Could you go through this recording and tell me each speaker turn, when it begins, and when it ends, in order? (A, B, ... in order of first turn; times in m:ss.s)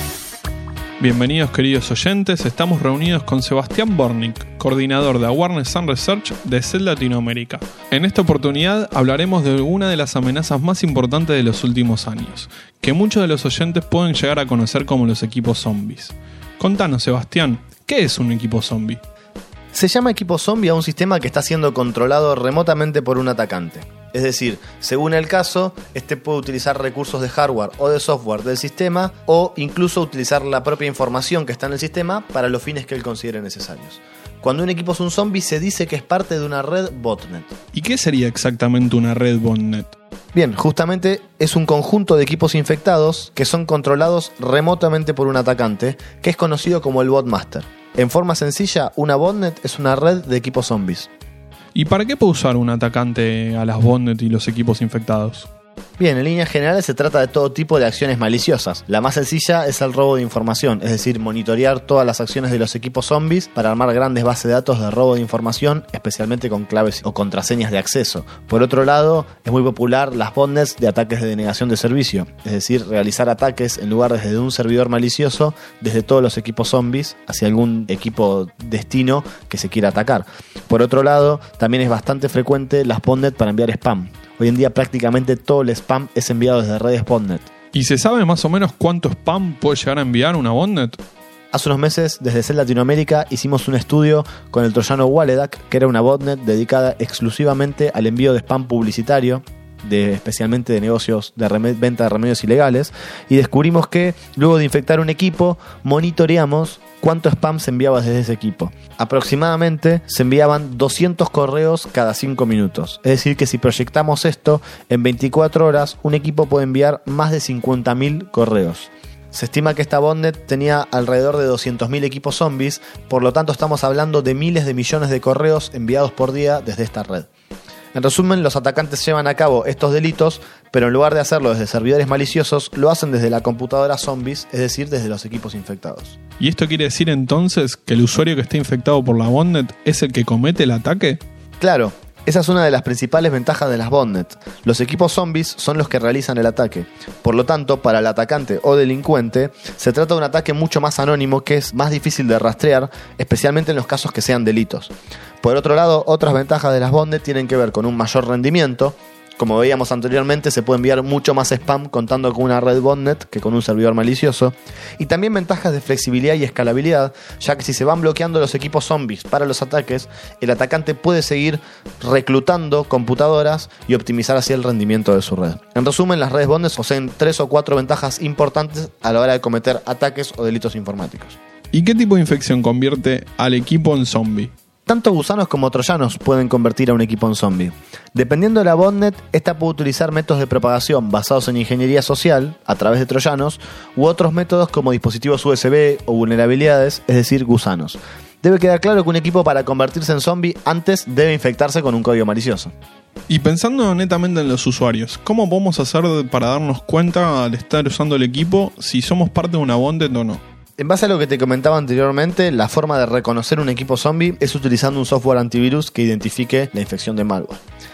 0:01.0-0:19.0 A
0:19.7-0:37.5 B
0:37.7-0:40.0 A
0:40.3-0:51.1 B
0:51.8-0:55.5 A
0:56.0-1:27.5 B
1:27.7-1:31.0 A
1:31.5-2:07.3 B
2:07.9-2:16.2 B
2:16.4-2:21.2 A
2:21.6-3:01.4 B
3:01.7-3:04.5 A
3:04.9-3:22.7 B
3:23.3-3:30.4 A
3:30.8-3:37.6 B